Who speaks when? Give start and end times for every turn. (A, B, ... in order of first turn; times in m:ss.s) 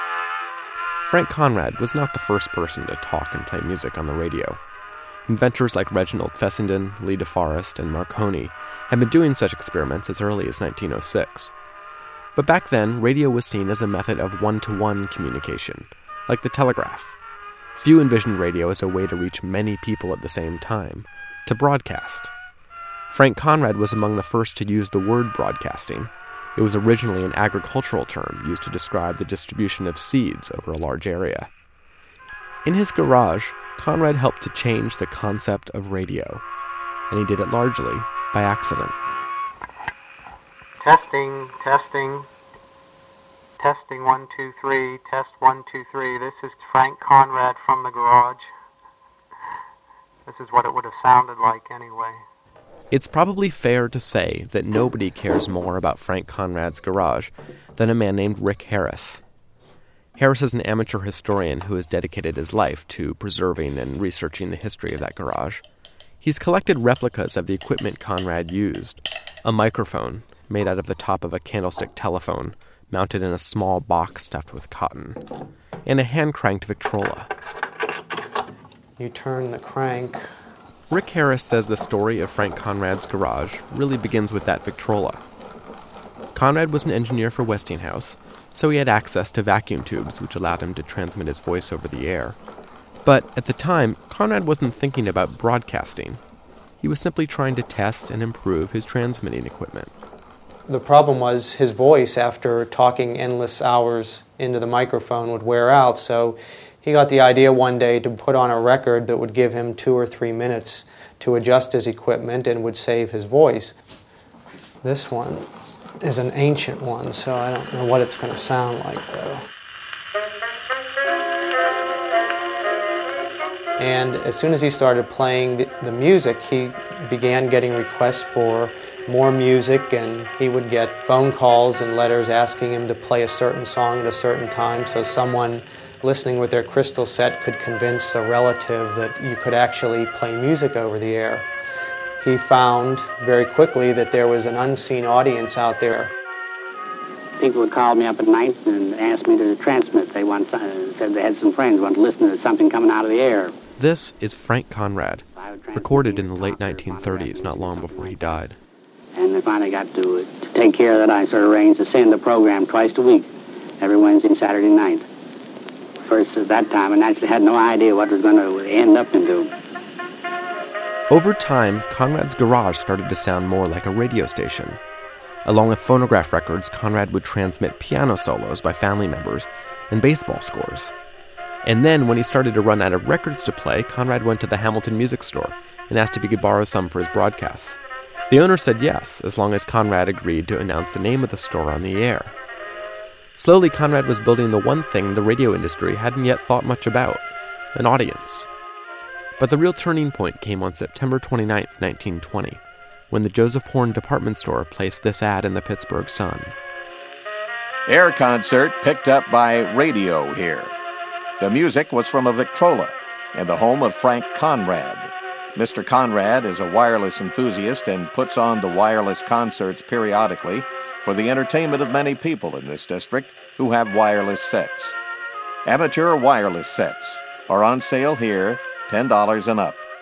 0:01.0-0:04.6 A
0:05.2-0:11.5 A
0:12.3-0:17.1 A
0:17.8-0:22.3 A
0:23.1-0:31.5 A
0:32.6-0:36.4 A
0:37.1-0:38.9 A
0:40.8-0:42.3 B
0:43.6-0:48.5 B
0:50.2-0:52.2 B
0:52.9-0:59.2 A
1:00.2-1:05.6 A
1:06.2-1:15.2 A
1:15.8-1:17.3 A
1:19.0-1:20.2 B
1:20.9-1:25.2 A
1:26.3-1:32.4 A
1:33.0-1:36.2 A
1:36.8-1:39.9 A
1:40.7-1:53.8 B
1:54.8-1:55.5 B
1:56.0-1:59.4 B
2:03.8-2:21.5 B
2:22.2-2:26.1 B
2:27.4-2:33.5 C
2:33.8-2:38.6 A
2:35.4-2:38.3 C
2:39.1-2:45.1 C
2:46.0-2:49.5 C
2:51.1-2:54.8 A
2:55.4-3:00.9 A
3:01.6-3:07.8 A
3:08.3-3:12.4 A
3:13.4-3:18.5 A
3:19.4-3:26.5 A
3:27.9-3:30.8 D
3:31.4-3:45.0 D
3:45.6-3:49.8 D